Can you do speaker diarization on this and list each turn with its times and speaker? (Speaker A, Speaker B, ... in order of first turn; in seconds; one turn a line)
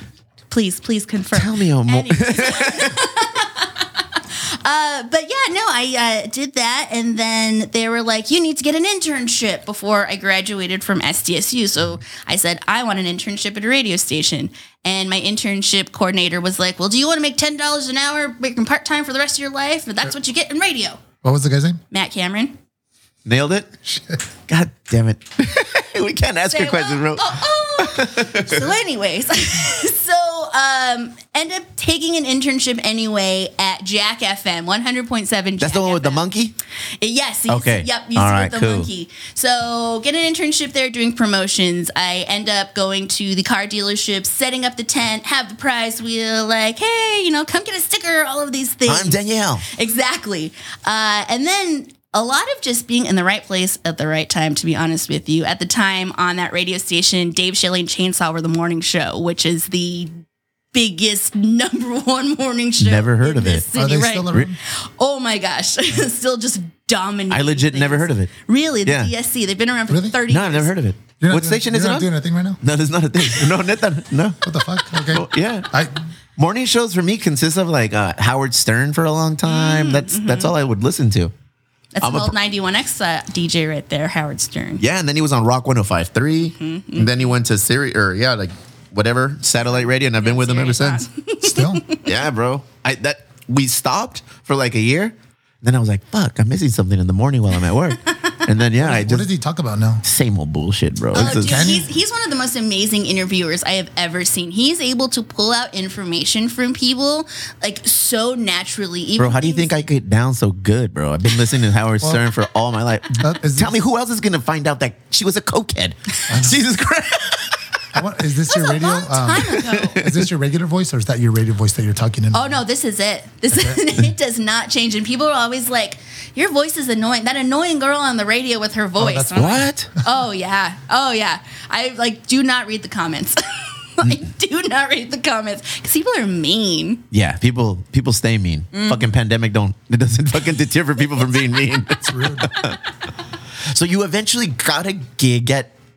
Speaker A: 0.5-21.0
Speaker B: 1.3-3.0
Speaker C: 21.2-21.8
Speaker A: 21.9-22.6
Speaker B: 23.2-23.7
Speaker C: 23.9-24.2
Speaker B: 24.5-28.7
Speaker A: 26.5-36.2
Speaker B: 35.6-36.5
Speaker A: 37.0-60.1
Speaker B: 37.5-38.9
Speaker B: 48.9-49.7
Speaker A: 60.7-70.7
Speaker B: 62.8-63.7
Speaker C: 63.7-64.6
Speaker B: 67.3-68.3
Speaker B: 68.8-69.1
Speaker C: 69.9-70.2
Speaker B: 70.3-72.1
Speaker C: 71.2-72.6
Speaker B: 72.6-74.4
Speaker C: 74.4-76.0
Speaker B: 74.9-75.7
Speaker B: 76.4-81.3
Speaker A: 79.5-80.5
Speaker A: 82.0-84.8
Speaker B: 82.0-82.3
Speaker B: 84.8-91.1
Speaker A: 86.6-87.3
Speaker A: 89.7-92.1
Speaker C: 91.4-91.8
Speaker B: 92.0-99.3
Speaker C: 98.8-100.0
Speaker B: 100.0-101.8
Speaker C: 101.1-101.9
Speaker A: 101.1-109.7
Speaker B: 109.2-117.5
Speaker C: 113.2-113.8
Speaker C: 116.3-116.6
Speaker C: 117.9-122.6
Speaker A: 118.5-120.0
Speaker B: 119.7-120.2
Speaker A: 122.3-137.0
Speaker C: 129.0-129.6
Speaker B: 129.3-129.9
Speaker B: 137.1-142.8
Speaker A: 138.7-139.1
Speaker C: 142.0-142.5
Speaker B: 143.7-145.7